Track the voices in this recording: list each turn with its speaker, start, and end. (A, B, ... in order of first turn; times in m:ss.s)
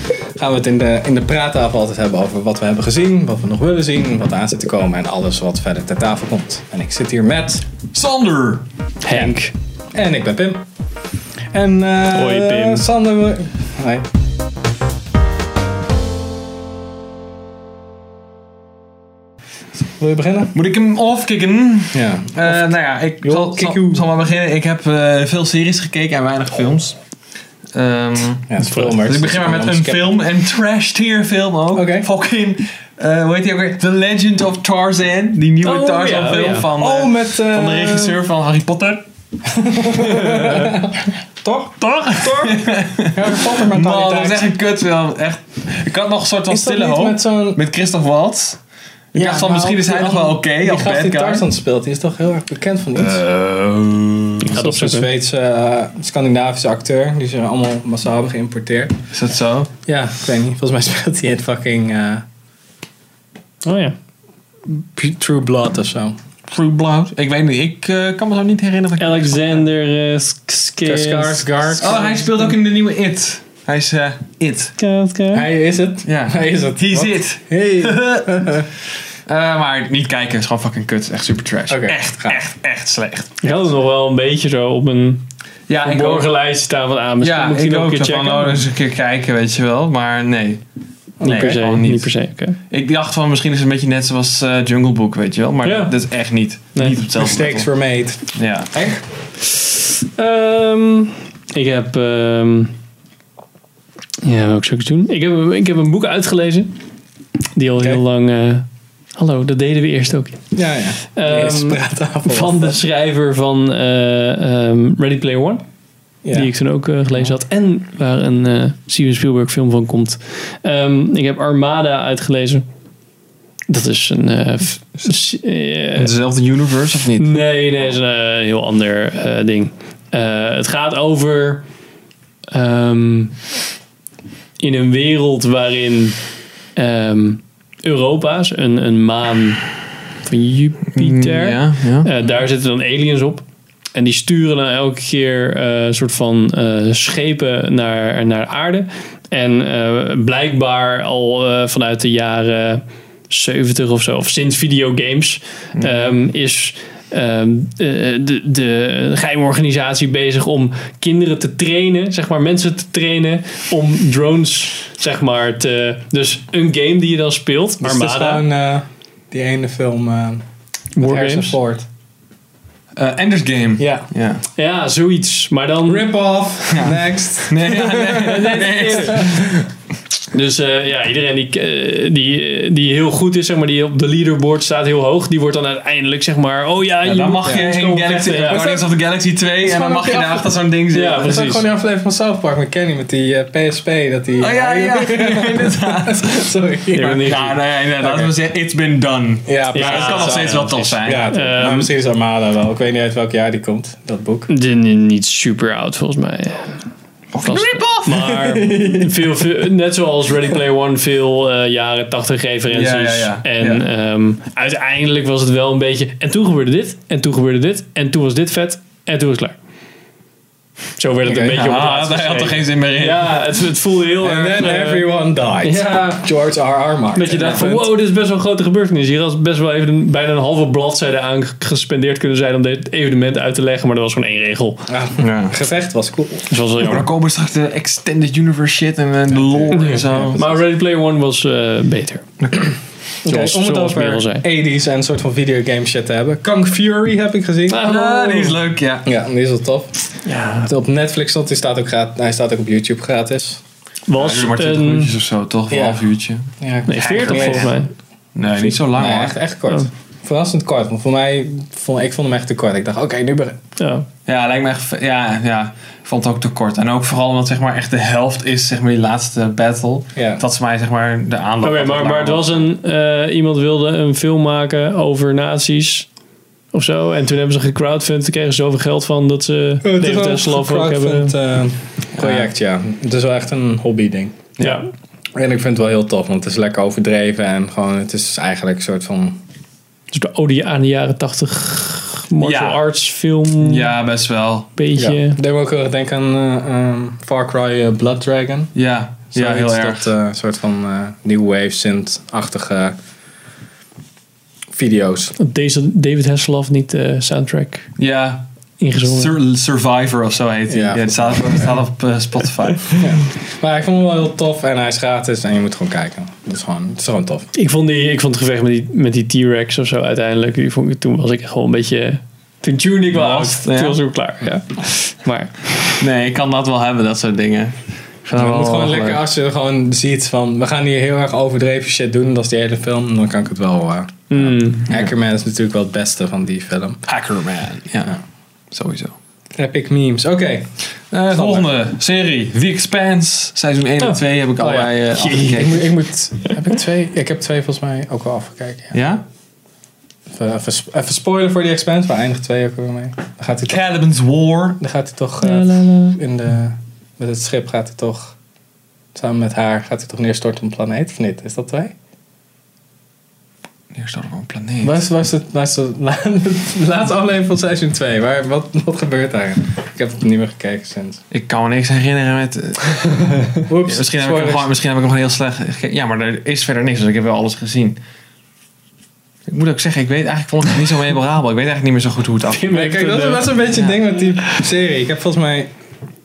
0:00.4-0:07.7 A
0:07.9-0:08.6 B
0:09.0-0:09.5 C
0:09.1-0:10.6 A
0:11.5-0:14.0 A
0:12.1-0:12.8 C
0:19.8-0:20.5 A
0:20.5-0:27.0 B
0:21.9-0:22.6 A
0:23.2-0:24.0 A
0:27.7-0:39.0 B
0:28.5-0:30.2 A
0:31.7-0:32.1 A
0:35.6-0:36.7 C
0:36.8-0:38.2 A
0:39.4-0:44.5 A
0:41.8-0:48.6 B
0:46.5-0:47.6 A
0:49.1-0:51.4 B
0:49.2-0:53.2 A
0:53.0-0:54.5 B
0:54.5-0:55.1 C
0:54.5-0:59.0 A
0:59.1-0:59.7 B
0:59.8-1:02.2 A
1:03.6-1:03.9 C
1:04.7-1:06.2 A
1:06.5-1:09.6 B
1:09.0-1:11.5 C
1:10.8-1:12.3 A
1:11.8-1:14.7 B
1:14.8-1:15.5 C
1:15.3-1:18.7 A
1:16.0-1:18.3 B
1:19.2-1:23.4 B
1:21.7-1:22.4 A
1:23.4-1:25.2 C
1:25.7-1:26.3 B
1:25.8-1:28.6 C
1:27.2-1:30.6 B
1:31.2-1:31.6 A
1:31.2-1:32.1 B
1:31.3-1:32.6 C
1:32.7-1:37.7 B
1:35.6-1:36.0 C
1:37.2-1:39.0 A
1:38.3-1:38.7 B
1:40.1-1:42.7 C
1:44.2-1:46.8 C
1:47.6-1:48.6 C
1:49.2-1:50.4 C
1:50.5-1:52.8 A
1:51.2-1:55.6 C
1:56.2-1:56.5 A
1:56.3-2:02.6 C
2:03.7-2:06.1 C
2:05.9-2:07.9 B
2:07.2-2:11.6 C
2:12.5-2:13.4 C
2:14.6-2:16.2 C
2:16.8-2:19.7 C
2:20.2-2:23.4 C
2:20.9-2:22.1 B
2:23.9-2:48.4 C
2:35.7-2:36.1 B
2:47.8-2:50.4 A
2:51.0-2:51.6 C
2:51.0-2:51.8 A
2:53.0-2:54.4 B
2:53.8-2:54.1 A
2:54.6-2:56.1 C
2:55.8-2:59.6 A
2:56.7-2:59.4 B
2:58.2-2:59.2 C
3:00.3-3:08.7 C
3:07.0-3:11.4 B
3:07.4-3:07.7 A
3:08.4-3:08.8 A
3:09.6-3:10.5 A
3:10.9-3:11.6 C
3:11.2-3:17.3 A
3:14.4-3:16.4 B
3:16.9-3:17.5 C
3:17.1-3:21.3 B
3:18.0-3:18.3 A
3:19.4-3:24.5 A
3:19.7-3:20.7 C
3:21.3-3:21.9 C
3:24.5-3:26.8 C
3:27.3-3:28.3 B
3:27.4-3:39.5 C
3:28.1-3:29.2 A
3:32.7-3:33.8 B
3:41.0-3:45.1 C
3:41.2-3:41.6 A
3:41.5-3:43.4 B
3:44.2-3:47.8 A
3:45.6-3:46.2 C
3:47.1-3:54.8 C
3:47.4-3:47.7 B
3:54.9-3:56.5 A
3:55.2-3:55.5 B
3:56.5-3:57.0 C
3:56.8-4:00.6 B
3:59.3-4:00.4 A
3:59.7-4:02.3 C
4:03.2-4:08.4 A
4:03.3-4:04.4 C
4:07.7-4:08.6 C
4:07.8-4:09.1 B
4:09.0-4:10.0 A
4:10.2-4:10.7 C
4:10.6-4:13.6 A
4:14.1-4:15.1 C
4:14.2-4:17.8 B
4:15.7-4:16.0 A
4:16.6-4:17.7 A
4:16.9-4:17.9 C
4:18.3-4:19.4 B
4:18.9-4:23.6 A
4:23.8-4:24.1 C
4:24.2-4:32.7 B
4:30.1-4:30.4 A
4:31.6-4:36.1 C
4:36.7-4:41.3 C
4:39.8-4:44.5 A
4:42.2-4:42.5 B
4:44.6-4:44.9 C
4:45.4-4:49.4 A
4:50.1-4:53.9 C
4:52.4-4:52.8 B
4:53.6-4:54.7 B
4:54.8-4:55.4 C
4:54.9-4:58.7 A
4:58.7-5:00.0 B
4:59.3-5:02.9 A
5:04.7-5:05.3 A
5:05.4-5:07.9 C
5:08.0-5:08.4 B
5:08.8-5:09.3 C
5:09.0-5:13.1 B
5:10.7-5:11.7 A
5:13.0-5:17.5 A
5:17.5-5:25.7 C
5:23.1-5:24.0 B
5:26.0-5:29.2 B
5:28.3-5:37.0 A
5:34.3-5:34.9 C
5:37.0-5:38.2 B
5:38.7-5:39.1 B
5:39.6-5:40.8 A
5:41.1-5:45.8 B
5:41.3-5:41.7 A
5:44.0-5:45.8 C
5:45.5-5:49.0 A
5:48.9-5:49.2 B
5:50.3-5:53.8 A
5:53.7-5:54.8 B
5:54.8-5:58.4 A
5:55.4-5:56.2 C
5:59.1-6:01.9 A
6:03.9-6:05.0 B
6:04.8-6:11.2 A
6:11.3-6:18.0 B
6:13.6-6:14.7 A
6:19.5-6:22.7 B
6:22.5-6:23.6 C
6:22.7-6:25.7 A